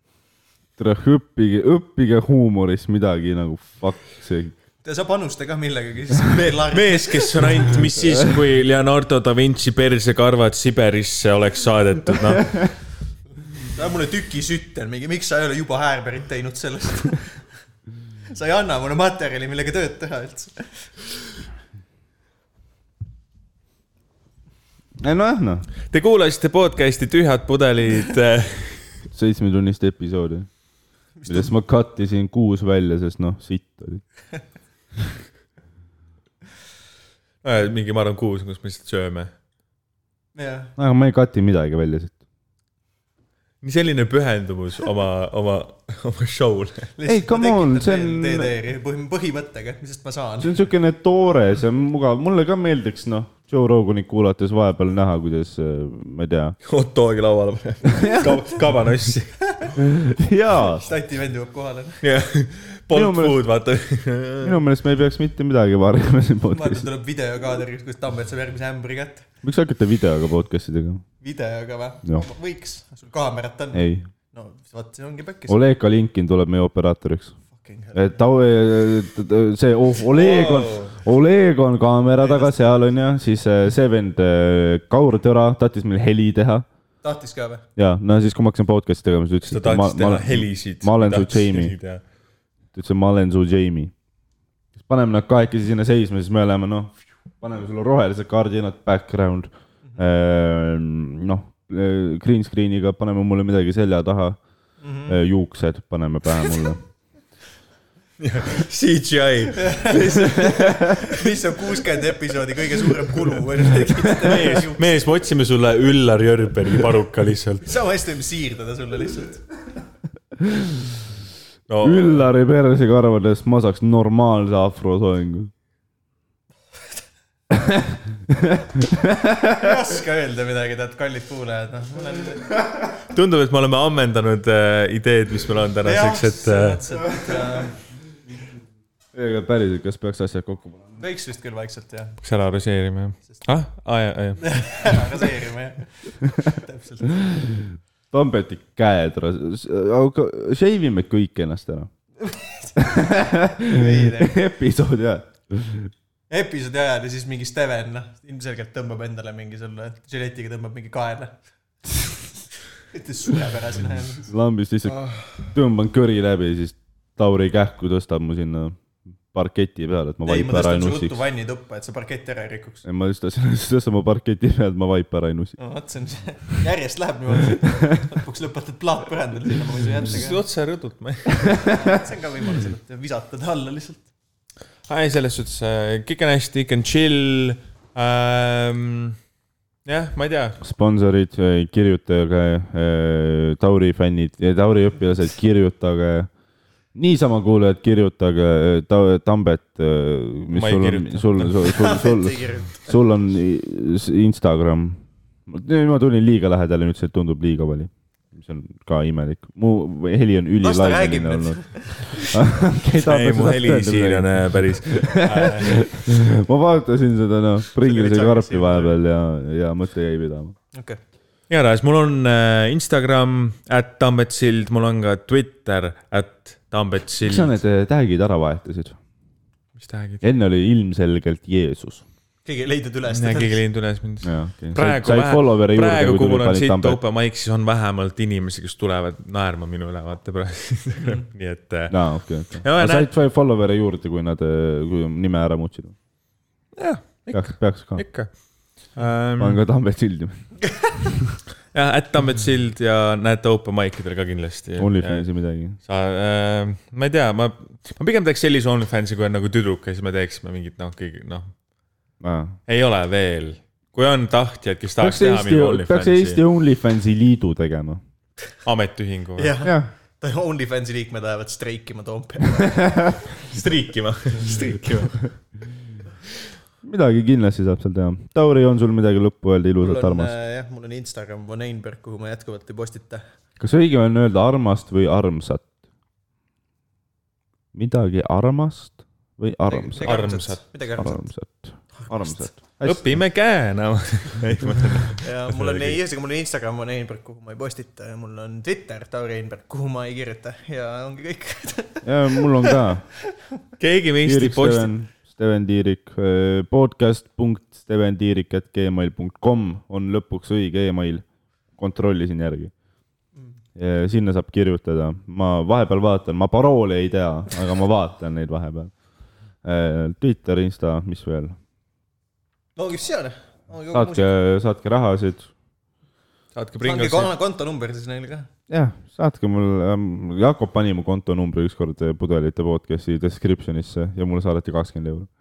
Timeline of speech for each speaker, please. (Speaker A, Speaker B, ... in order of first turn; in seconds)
Speaker A: 0.8-4.5, 25.0-25.7, 29.1-30.5, 31.3-34.0, 40.8-42.1, 47.0-48.5, 50.4-56.5, 57.8-58.4, 59.8-60.9, 62.9-63.4, 64.4-66.9, 69.4-71.0, 73.7-74.1, 75.5-77.3, 77.9-86.7, 87.8-91.7, 92.7-93.9, 94.8-104.4, 105.1-106.8, 120.4-120.8, 121.8-125.5, 127.5-129.8, 139.1-141.0, 147.3-151.9, 152.8-155.9, 164.2-168.8, 169.3-171.2, 172.8-175.6, 190.6-196.3, 196.9-220.5, 227.2-229.0, 230.2-232.0, 234.2-237.0, 241.9-245.9, 247.3-248.0, 249.4-251.1, 254.8-255.8, 262.2-262.6, 265.0-268.0, 276.8-280.3, 283.6-285.7, 287.7-290.2, 290.9-293.1, 302.0-303.0, 304.2-311.2, 311.8-312.7, 313.8-318.9, 319.6-321.6, 323.9-325.5, 328.7-335.3
Speaker B: 4.8-7.7, 13.7-17.4, 18.3-20.9, 31.2-31.5, 40.3-40.7, 47.0-50.6, 59.5-59.7, 60.6-62.0, 66.5-69.2, 71.2-75.6, 77.5-78.2, 82.2-82.8, 87.0-87.6, 104.8-105.2, 109.5-114.9, 117.6-119.4, 129.4-132.5, 135.8-137.7, 141.0-142.2, 144.4-147.4, 152.2-154.4, 156.3-161.4, 162.9-164.3, 170.2-172.8, 175.6-180.4, 181.6-184.1, 201.6-202.9, 210.6-212.4, 217.8-218.9, 220.7-221.0, 232.4-233.6, 250.7-250.9, 269.4-273.2, 279.8-283.2, 289.7-291.2, 291.9-292.5, 295.2-302.8, 322.8-324.3, 326.8-328.5
Speaker C: 6.7-12.7, 25.9-29.0, 37.4-39.3, 43.6-46.9, 56.6-59.4, 62.0-64.6, 80.1-80.9, 89.5-92.0, 108.2-111.0, 114.2-117.6, 121.7-122.2, 133.0-136.8, 142.2-145.0, 180.1-181.7, 184.9-189.2, 189.8-190.6, 200.5-201.7, 213.0-216.0, 221.5-227.5, 229.8-230.2, 233.1-243.1, 246.8-249.6, 251.7-261.5, 262.7-266.4, 268.6-269.6, 273.4-275.2, 290.0-290.6, 292.8-296.0, 303.8-304.9, 326.5-327.3